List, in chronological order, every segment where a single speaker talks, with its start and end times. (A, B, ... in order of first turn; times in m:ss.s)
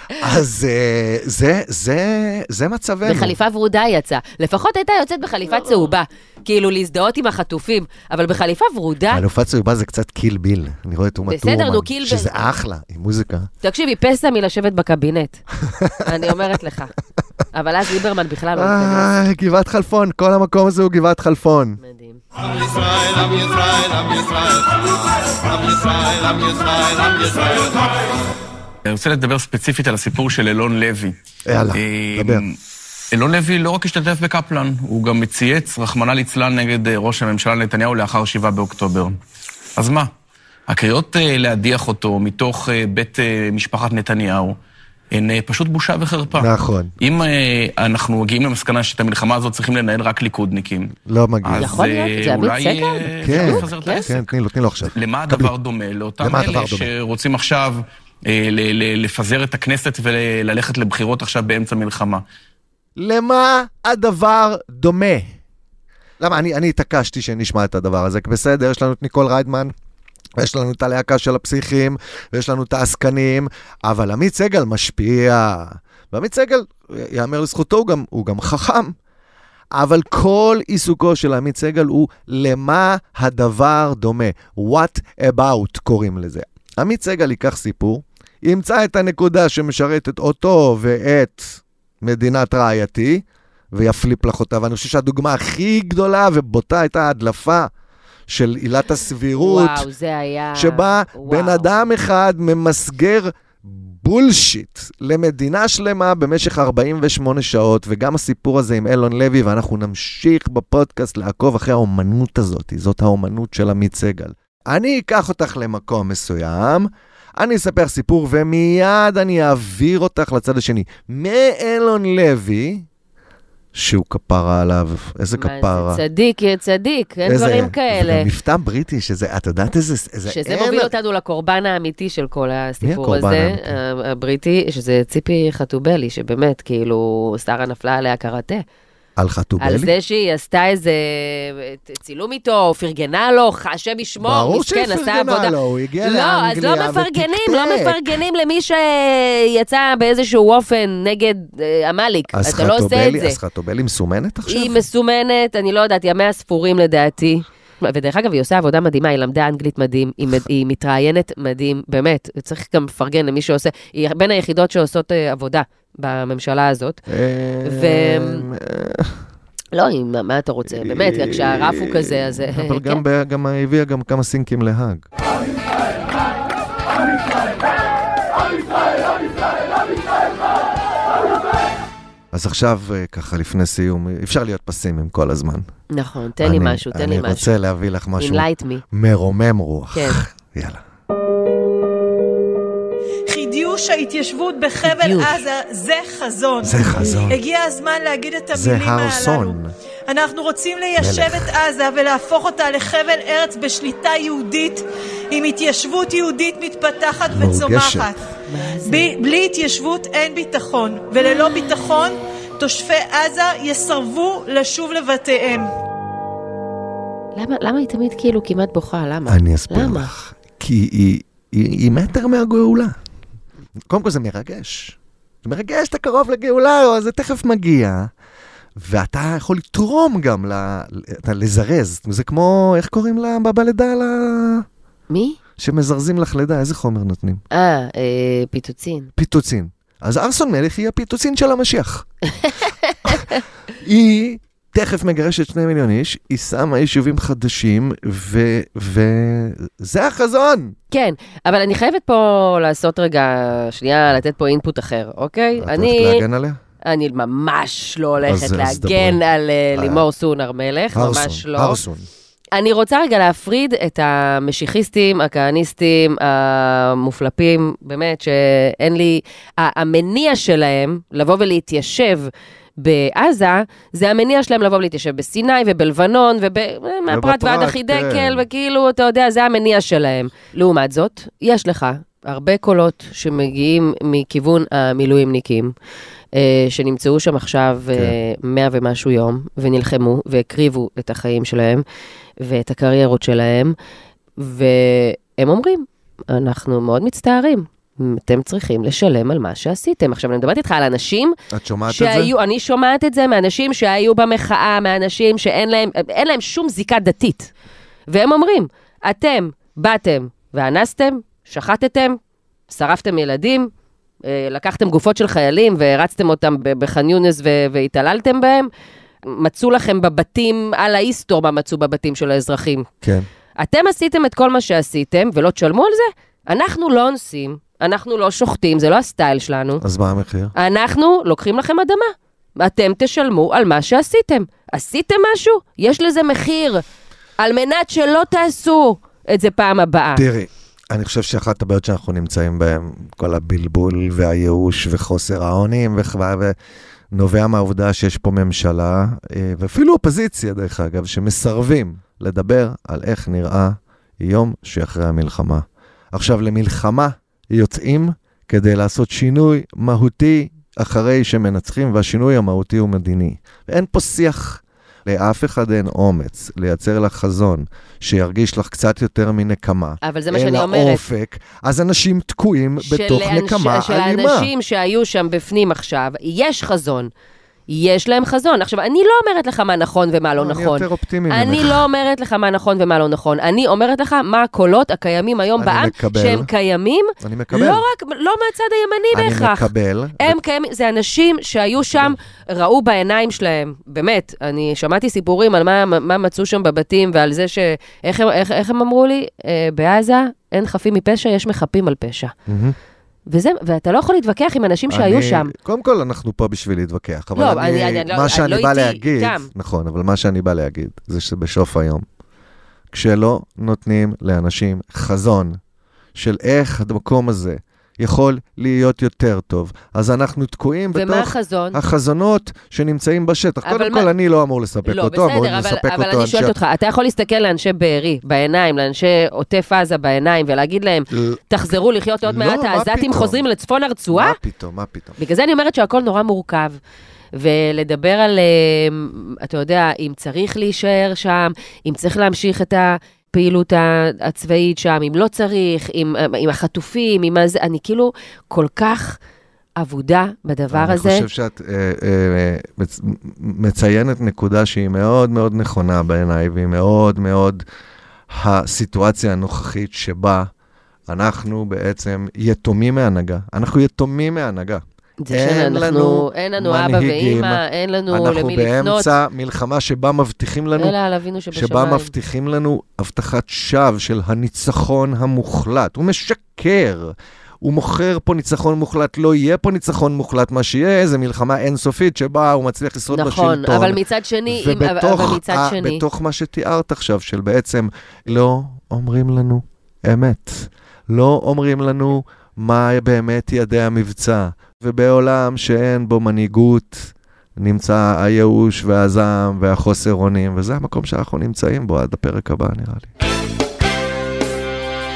0:00.2-0:03.4 A
0:03.0-0:09.2 B
0:09.1-0:13.5 A
0:11.3-0:12.4 B
0:13.6-0:15.4 B
0:15.6-0:16.3 A
0:16.0-0:16.9 B
0:17.5-0:19.2 B
0:18.5-0:21.8 A
0:21.8-0:22.2 B
0:22.5-0:24.6 C
0:25.5-0:27.7 C
0:28.8-0:31.2 D
0:31.4-0:32.4 A
0:31.7-0:32.6 D
0:33.1-0:39.2 D
0:39.8-0:40.1 D
0:40.7-0:44.6 D
0:45.1-0:50.9 D
0:46.3-0:46.9 A
0:51.0-0:51.8 A
0:51.4-0:54.3 D
0:51.6-0:54.1 B
0:53.2-0:55.5 A
0:54.9-1:02.2 D
0:56.2-0:56.9 A
1:03.0-1:05.4 A
1:06.2-1:09.7 A
1:10.4-1:19.0 A
1:19.7-1:37.7 A
1:38.3-1:39.9 A
1:39.4-1:41.9 B
1:40.6-2:02.9 A
2:03.7-2:06.0 A
2:05.4-2:08.3 B
2:07.2-2:10.9 A
2:10.3-2:18.6 B
2:12.8-2:13.8 A
2:19.2-2:19.9 A
2:19.6-2:33.4 B
2:24.2-2:28.2 A
2:32.3-2:34.8 A
2:34.5-2:47.0 B
2:47.1-2:49.2 A
2:47.6-2:48.5 B
2:49.7-2:53.0 B
2:50.8-2:55.1 A
3:02.3-3:05.7 A
3:05.9-3:07.5 B
3:06.4-3:10.8 A
3:08.2-3:08.8 B
3:09.9-3:10.2 B
3:13.3-3:28.2 E
3:14.8-3:15.4 B
3:16.6-3:17.4 A
3:18.5-3:19.7 A
3:21.0-3:21.6 A
3:27.3-3:28.2 A
3:28.5-3:29.1 B
3:28.8-3:35.7 E
3:37.4-3:40.1 B
3:39.3-3:43.0 A
3:43.9-3:48.1 A
3:48.8-3:54.7 A
3:55.1-3:55.4 B
3:55.6-3:57.4 A
3:57.5-3:59.1 B
3:59.2-4:02.1 A
4:02.4-4:03.4 B
4:03.8-4:10.8 A
4:10.9-4:16.2 B
4:15.6-4:16.6 A
4:16.9-4:21.8 B
4:18.2-4:19.2 A
4:19.7-4:20.0 A
4:20.9-4:22.1 A
4:22.5-4:45.7 B
4:37.1-4:38.5 A
4:46.3-4:51.8 B
4:52.4-4:53.8 B
4:54.4-5:01.4 B
5:01.5-5:02.3 A
5:01.9-5:07.5 B
5:08.1-5:12.2 B
5:12.7-5:13.7 B
5:14.2-5:18.7 B
5:19.3-5:22.9 B
5:23.6-5:29.8 B
5:29.8-5:30.5 A
5:30.6-5:36.8 B
5:37.4-5:40.2 B
5:40.2-5:46.6 A
5:47.1-6:14.5 A
6:10.0-6:11.0 B
6:12.8-6:17.1 B
6:17.7-6:42.3 B
6:20.4-6:21.9 A
6:25.6-6:26.5 A
6:27.2-6:27.8 A
6:29.1-6:30.4 A
6:31.8-6:32.2 A
6:42.5-6:42.8 A
6:43.3-6:45.5 B
6:44.9-6:52.0 A
6:47.4-6:49.5 B
6:52.9-6:55.6 A
6:56.2-7:06.6 A
7:00.9-7:01.8 B
7:03.6-7:04.1 B
7:04.9-7:14.4 B
7:11.1-7:11.4 A
7:12.2-7:13.4 A
7:14.1-7:15.2 A
7:15.2-7:16.8 B
7:17.4-7:29.2 B
7:29.8-7:31.3 B
7:30.7-7:37.6 A
7:38.3-7:40.5 A
7:41.1-7:51.0 A
7:45.2-7:49.1 B
7:50.8-7:52.1 B
7:51.5-8:23.1 A
8:03.1-8:06.0 B